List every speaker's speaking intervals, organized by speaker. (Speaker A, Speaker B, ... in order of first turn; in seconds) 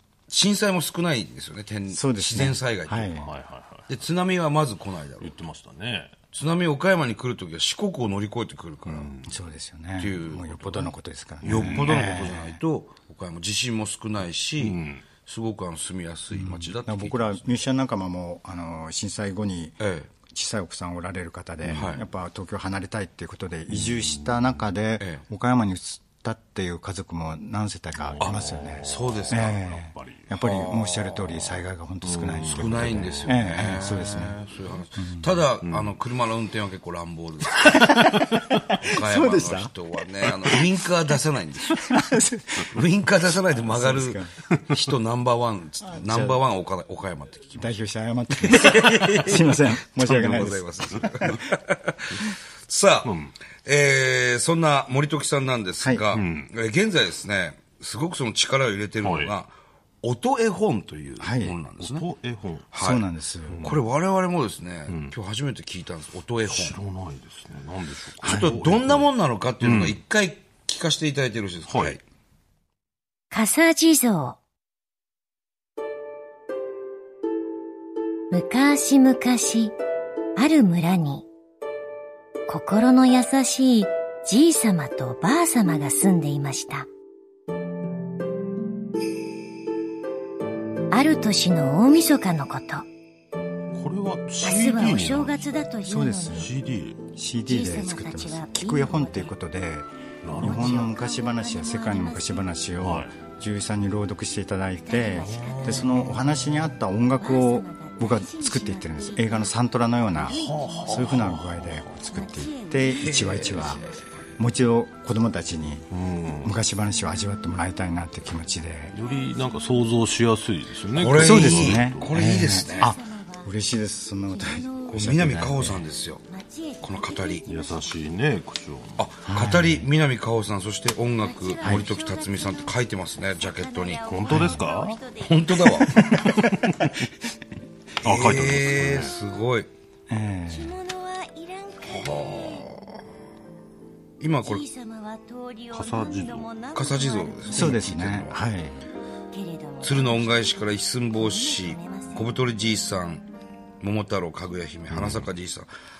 Speaker A: 0.3-3.2, 3.9-5.3, 6.3-9.1, 10.0-17.6, 19.8-20.1, 21.7-22.0, 25.0-25.2, 28.2-29.6, 30.3-31.3, 32.5-37.9, 38.8-41.9, 42.6-47.7, 48.4-62.1, 62.7-63.0, 63.6-66.8, 68.2-72.0, 113.0-114.0, 120.9-122.9, 124.9-126.2, 126.8-127.5, 129.0-134.0, 135.2-136.0, 138.0-139.7, 141.8-143.0, 144.2-144.7, 146.7-148.4, 149.8-153.3, 153.8-155.7
Speaker B: 1.9-3.3, 9.3-12.6, 16.3-34.4, 35.0-35.3, 37.6-38.4, 39.0-39.7, 41.7-42.8, 43.7-44.3, 45.8-46.4, 47.5-51.4, 55.8-56.1, 61.2-61.6, 62.8-63.7, 68.2-68.6, 95.8-96.5, 97.2-113.8, 114.4-115.9, 116.4-119.0, 121.2-125.8, 129.2-129.9, 131.6-131.9, 134.3-134.7, 135.8-136.4, 140.1-140.8, 147.5-148.8
Speaker C: 3.2-3.9, 5.2-6.2, 8.9-9.4, 11.4-12.2, 14.6-15.0, 21.6-21.9, 23.7-24.6, 28.0-30.3, 32.0-34.2, 35.6-36.0, 37.8-38.7, 44.5-44.9, 53.0-53.3, 56.1-56.5, 59.0-59.3, 61.8-62.7, 63.5-63.8, 64.9-65.2, 66.5-70.0, 71.7-72.0, 93.7-95.5, 96.3-97.0, 100.2-100.9, 102.8-103.2, 105.2-106.3, 110.2-112.0, 115.9-116.6, 118.9-122.2, 127.5-129.1, 134.0-135.0, 136.1-136.9, 138.0-139.2, 145.7-146.5, 154.9-155.3
Speaker D: 73.3-74.4, 78.3-79.8, 80.4-81.3, 82.5-86.9, 90.9-92.9, 94.4-96.5, 97.5-99.3, 100.4-102.7, 104.8-106.3, 107.2-109.5, 110.1-111.2, 112.0-114.0, 122.2-123.5, 124.3-125.1, 126.3-127.8, 131.2-135.8, 140.5-142.7, 144.4-147.8, 149.3-152.3